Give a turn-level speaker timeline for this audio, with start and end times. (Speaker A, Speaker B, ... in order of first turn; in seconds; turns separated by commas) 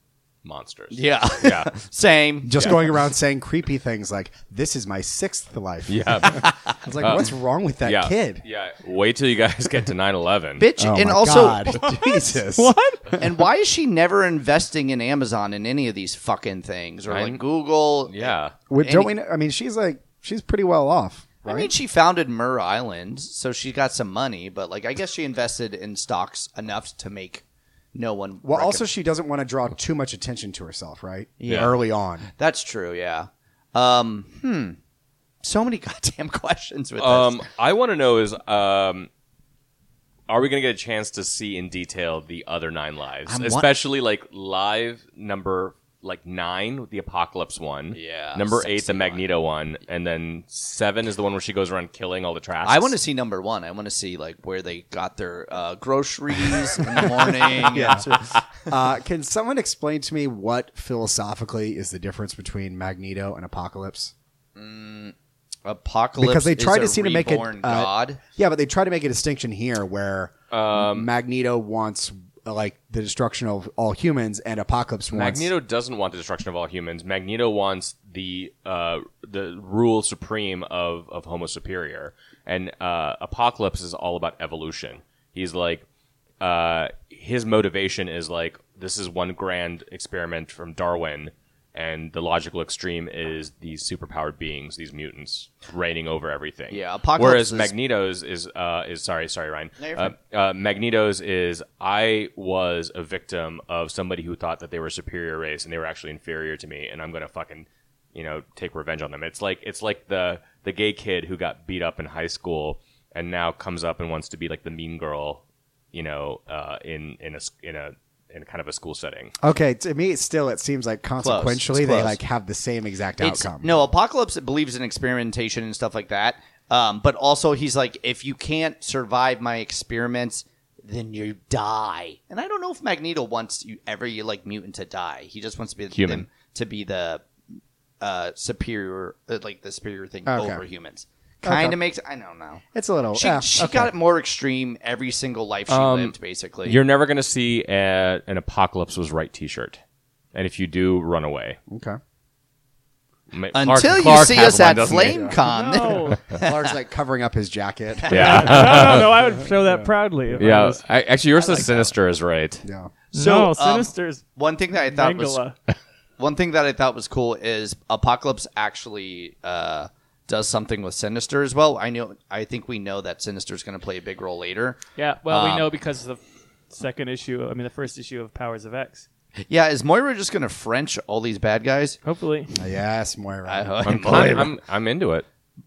Speaker A: 0.4-1.7, Speaker B: 0.9-2.8, Speaker C: 2.4-8.4, Speaker A: 5.9-7.3, Speaker B: 6.4-6.8, Speaker A: 7.8-10.7, Speaker B: 10.6-11.8, Speaker C: 10.8-13.2, Speaker D: 11.7-13.1, Speaker B: 13.2-19.1, Speaker A: 17.1-17.4, Speaker A: 18.1-18.5, Speaker C: 18.7-21.7, Speaker B: 21.4-28.9, Speaker C: 28.4-32.3, Speaker B: 31.4-31.7, Speaker B: 32.3-34.8, Speaker B: 35.4-37.4, Speaker A: 37.0-39.1, Speaker A: 40.3-52.9, Speaker B: 43.3-43.7, Speaker B: 47.9-49.2, Speaker B: 52.6-58.4, Speaker C: 57.0-64.1, Speaker B: 64.5-68.2, Speaker C: 66.2-75.5, Speaker A: 70.5-71.1, Speaker A: 75.1-85.8, Speaker A: 86.4-119.3, Speaker B: 96.7-97.7, Speaker B: 99.8-100.1, Speaker C: 119.4-123.8, Speaker B: 121.2-122.2, Speaker B: 123.2-137.2, Speaker A: 135.9-136.2, Speaker B: 138.0-142.6, Speaker C: 140.3-140.6, Speaker C: 141.4-141.8, Speaker C: 142.7-143.9, Speaker B: 143.1-146.8, Speaker A: 145.7-149.8, Speaker A: 150.3-151.6, Speaker C: 151.7-152.0, Speaker A: 153.3-155.3, Speaker B: 153.5-156.7, Speaker C: 154.9-155.4, Speaker D: 155.4-156.2, Speaker C: 156.3-159.9, Speaker B: 158.0-158.7, Speaker A: 158.1-159.1, Speaker D: 158.1-160.8, Speaker A: 160.3-162.6, Speaker B: 161.5-161.8, Speaker C: 162.6-162.9, Speaker B: 163.1-165.4, Speaker D: 163.1-164.2, Speaker D: 164.8-165.5, Speaker B: 166.2-175.7, Speaker D: 174.9-179.1, Speaker B: 179.5-182.0, Speaker D: 182.0-182.5, Speaker C: 182.5-184.3, Speaker B: 183.5-184.5, Speaker A: 183.8-185.2